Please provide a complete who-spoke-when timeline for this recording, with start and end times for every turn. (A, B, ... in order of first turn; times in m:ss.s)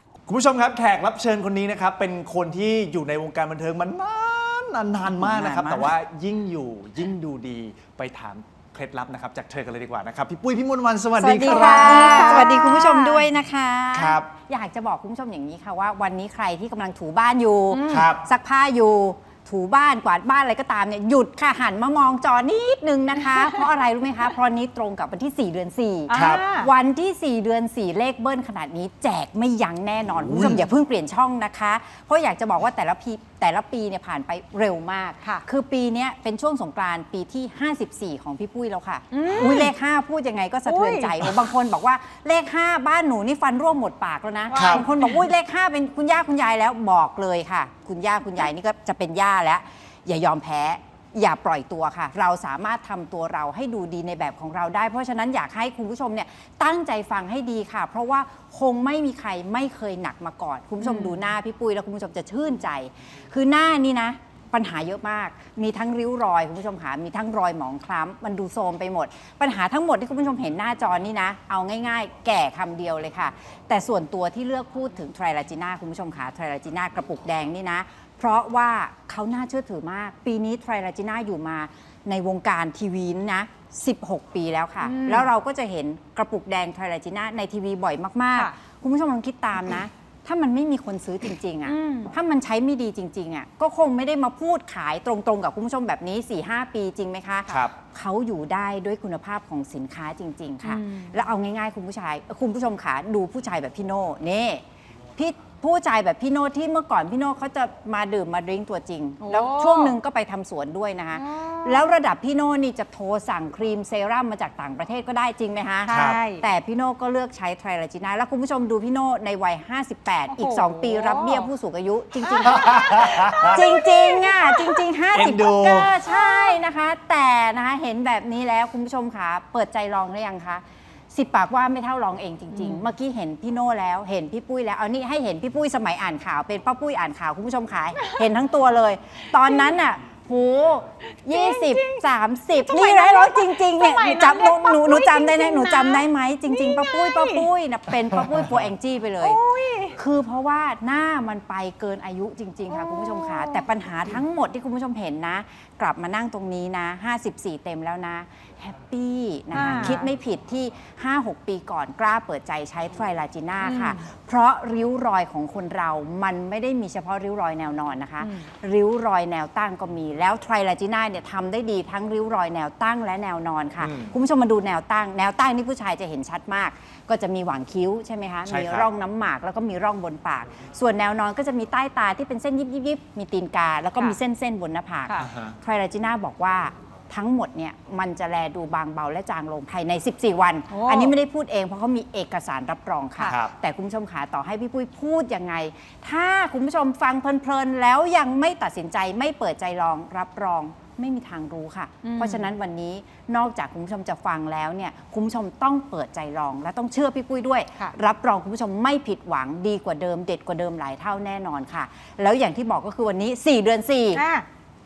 0:00.3-0:12.5 A
0:05.1-0:05.9 B
0:11.2-1:44.6 B
0:11.4-0:13.2 C
0:13.9-0:14.3 A
0:17.7-0:18.1 C
0:17.9-0:18.2 A
0:26.1-0:26.7 C
0:26.1-0:26.4 A
0:30.3-0:30.6 A
0:39.1-0:39.7 C
0:40.7-0:41.1 C
0:44.5-0:45.2 C
0:44.5-0:44.8 A
1:00.8-1:01.2 C
1:24.8-1:25.3 C
1:31.6-1:32.1 C
1:37.5-1:37.7 A
1:40.6-1:41.2 C
1:45.2-2:29.4 B
1:49.2-1:50.0 C
1:51.1-1:51.9 C
1:55.8-1:56.4 C
1:55.9-1:56.2 A
2:00.3-2:01.5 C
2:02.2-2:04.8 C
2:02.6-2:03.6 A
2:05.1-2:05.9 A
2:06.1-2:06.6 C
2:12.5-2:12.8 C
2:21.3-2:27.5 C
2:29.2-2:30.0 C
2:30.0-3:34.2 B
2:32.7-2:33.7 C
2:39.5-2:40.0 C
2:43.6-2:44.0 C
2:48.2-2:48.5 C
2:53.8-2:54.1 A
2:58.5-2:58.9 A
3:05.2-3:05.6 A
3:10.7-3:11.2 C
3:13.3-3:13.5 A
3:22.0-3:22.5 C
3:34.2-3:34.4 C